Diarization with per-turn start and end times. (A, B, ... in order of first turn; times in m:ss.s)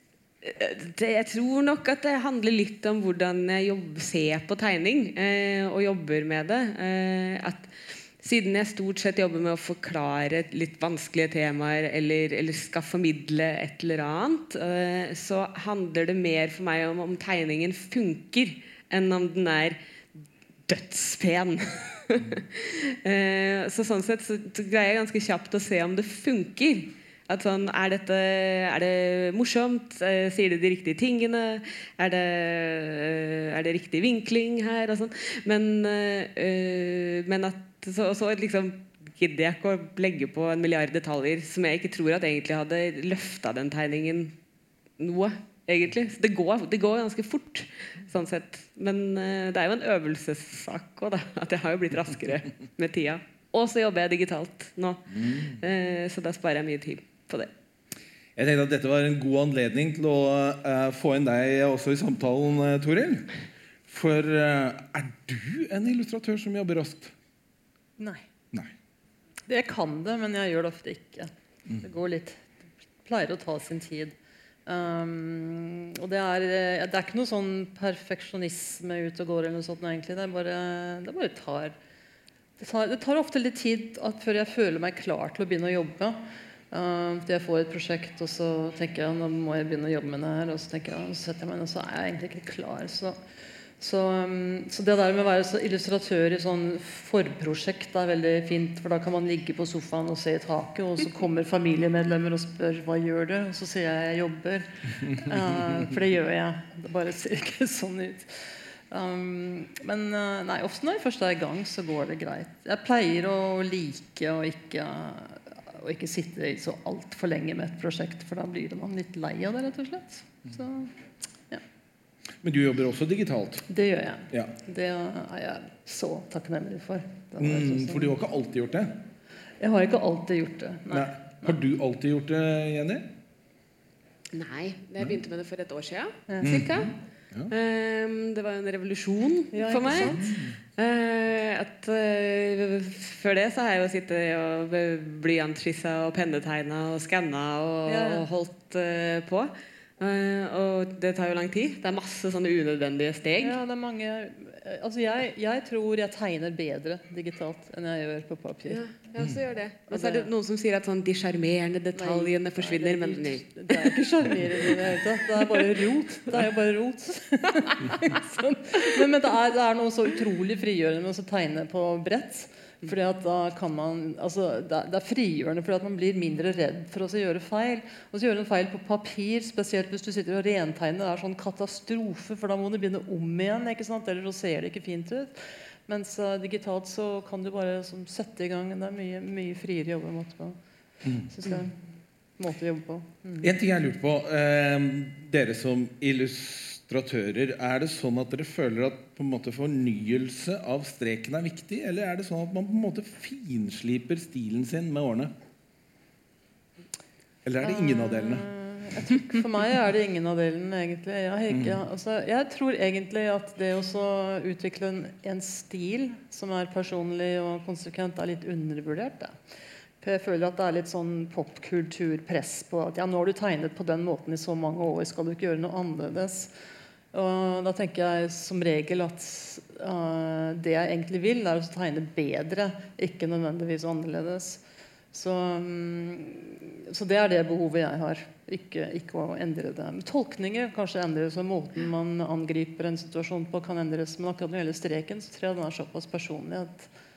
0:00.4-0:19.8 A
0:20.7-0:44.4 A
0:45.0-0:57.5 A
0:55.2-0:55.6 B
0:58.4-1:03.3 B
1:03.9-1:07.1 B
1:08.0-1:08.2 C
1:09.5-1:11.3 C
1:11.8-1:12.4 C
1:13.0-1:14.2 C
1:14.7-1:21.8 C
1:22.6-1:26.2 C
1:26.7-1:33.2 C
1:33.8-2:00.9 C
1:45.1-1:45.4 B
2:02.4-2:03.7 B
2:03.7-2:08.1 C
2:07.4-2:09.1 B
2:09.6-2:11.5 C
2:10.9-2:13.1 B
2:14.3-2:16.9 A
2:16.3-2:16.6 C
2:16.4-2:17.5 B
2:17.5-2:20.2 A
2:19.5-2:20.3 C
2:20.2-2:20.6 B
2:20.8-2:33.6 A
2:27.9-2:28.3 C
2:33.4-2:38.8 C
2:38.7-2:44.0 A
2:39.9-2:40.3 C
2:42.0-3:10.6 C
2:44.6-2:45.7 A
3:11.0-3:11.3 B
3:11.2-3:11.8 C
3:12.4-3:13.5 C
3:13.4-3:25.3 B
3:27.4-3:28.5 B
3:27.6-3:39.4 C
3:31.5-3:31.8 B
3:40.0-3:46.5 C
3:47.1-3:54.6 C
3:55.1-4:06.9 C